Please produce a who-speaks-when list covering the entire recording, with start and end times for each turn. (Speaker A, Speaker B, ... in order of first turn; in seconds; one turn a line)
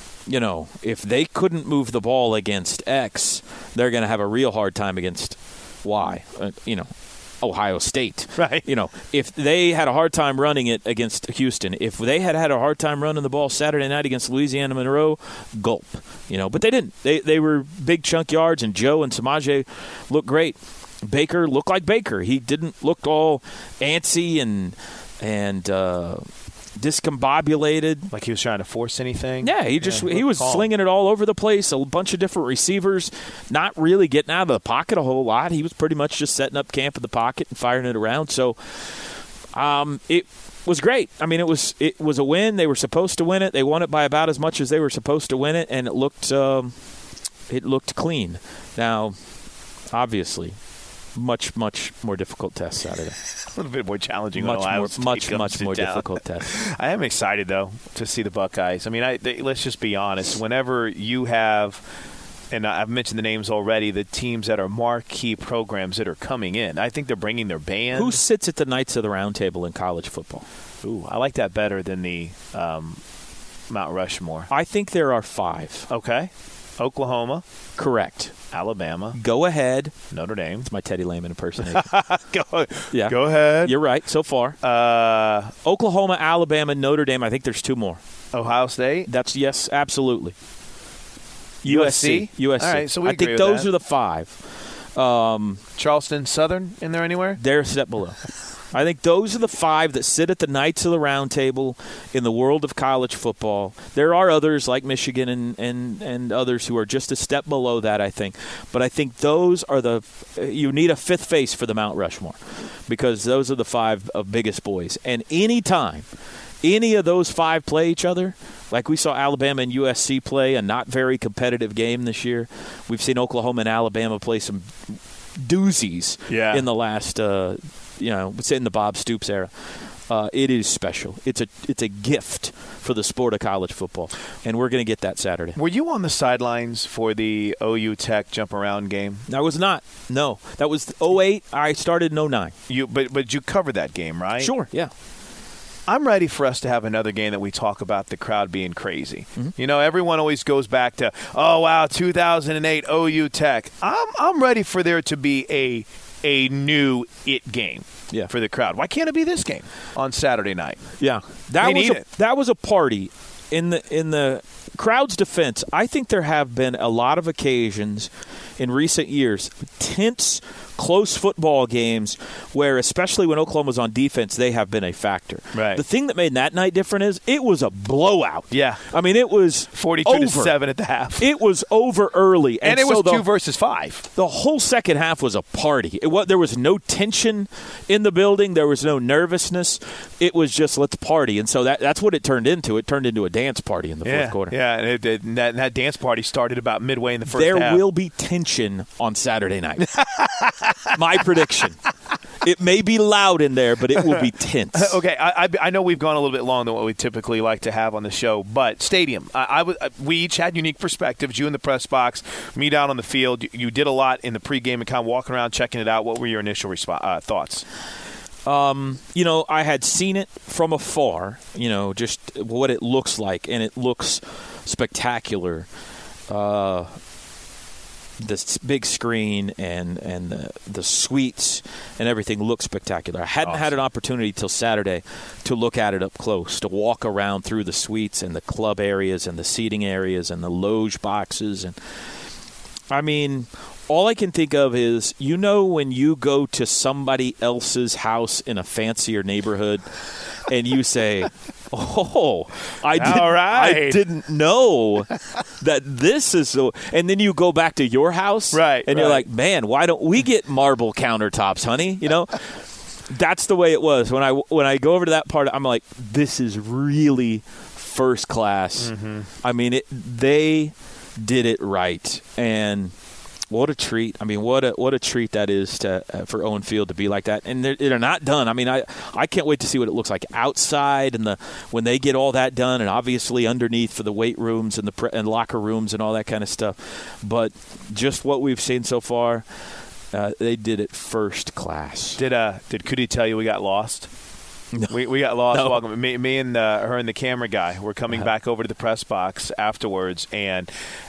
Speaker A: 0.3-26.3
Speaker B: 8.4-8.7
Speaker A: 26.8-28.1
Speaker B: 28.1-30.7
Speaker A: 29.4-46.8
Speaker A: 47.5-49.1
Speaker A: 49.9-50.6
Speaker A: 51.1-53.2
Speaker B: 53.4-61.8
Speaker A: 54.4-56.5
Speaker B: 62.5-68.2
Speaker A: 67.9-70.4
Speaker B: 70.8-73.0
Speaker B: 73.7-74.5
Speaker A: 74.5-75.9
Speaker B: 75.9-77.4
Speaker A: 77.8-78.3
Speaker B: 78.5-79.2
Speaker A: 79.1-79.9
Speaker B: 80.1-80.7
Speaker A: 80.7-81.9
Speaker B: 81.6-83.8
Speaker A: 82.9-84.6
Speaker B: 84.6-85.5
Speaker A: 85.6-88.0
Speaker B: 88.3-89.1
Speaker A: 89.1-90.3
Speaker A: 91.6-94.4
Speaker B: 91.7-93.7
Speaker A: 95.0-95.6
Speaker B: 95.8-97.4
Speaker A: 97.4-98.2
Speaker A: 98.7-116.0
Speaker A: 116.6-129.5
Speaker B: 126.3-126.6
Speaker A: 130.1-135.6
Speaker B: 135.6-139.2
Speaker A: 139.3-142.5
Speaker B: 142.7-144.6
Speaker A: 144.4-144.9
Speaker B: 145.9-161.0
Speaker A: 161.0-180.5
Speaker B: 161.6-162.0
Speaker B: 175.5-175.8
Speaker B: 178.5-178.9
Speaker B: 179.7-181.2
Speaker A: 181.2-183.2
Speaker B: 182.6-184.0
Speaker A: 184.2-194.5
Speaker B: 194.0-197.8
Speaker A: 197.3-199.9
Speaker B: 199.9-200.9
Speaker A: 200.9-201.8
Speaker A: 202.4-204.9
Speaker B: 204.7-217.6
Speaker A: 218.4-225.7
Speaker A: 226.3-226.9
Speaker A: 228.2-241.7
Speaker B: 233.4-233.8
Speaker A: 242.9-249.9
Speaker A: 250.4-262.4
Speaker B: 252.9-254.0
Speaker B: 258.5-259.2
Speaker A: 263.1-272.9
Speaker B: 268.8-269.3
Speaker A: 273.5-289.5
Speaker A: 290.1-292.2
Speaker B: 292.2-294.1
Speaker B: 294.9-300.7
Speaker A: 295.5-295.8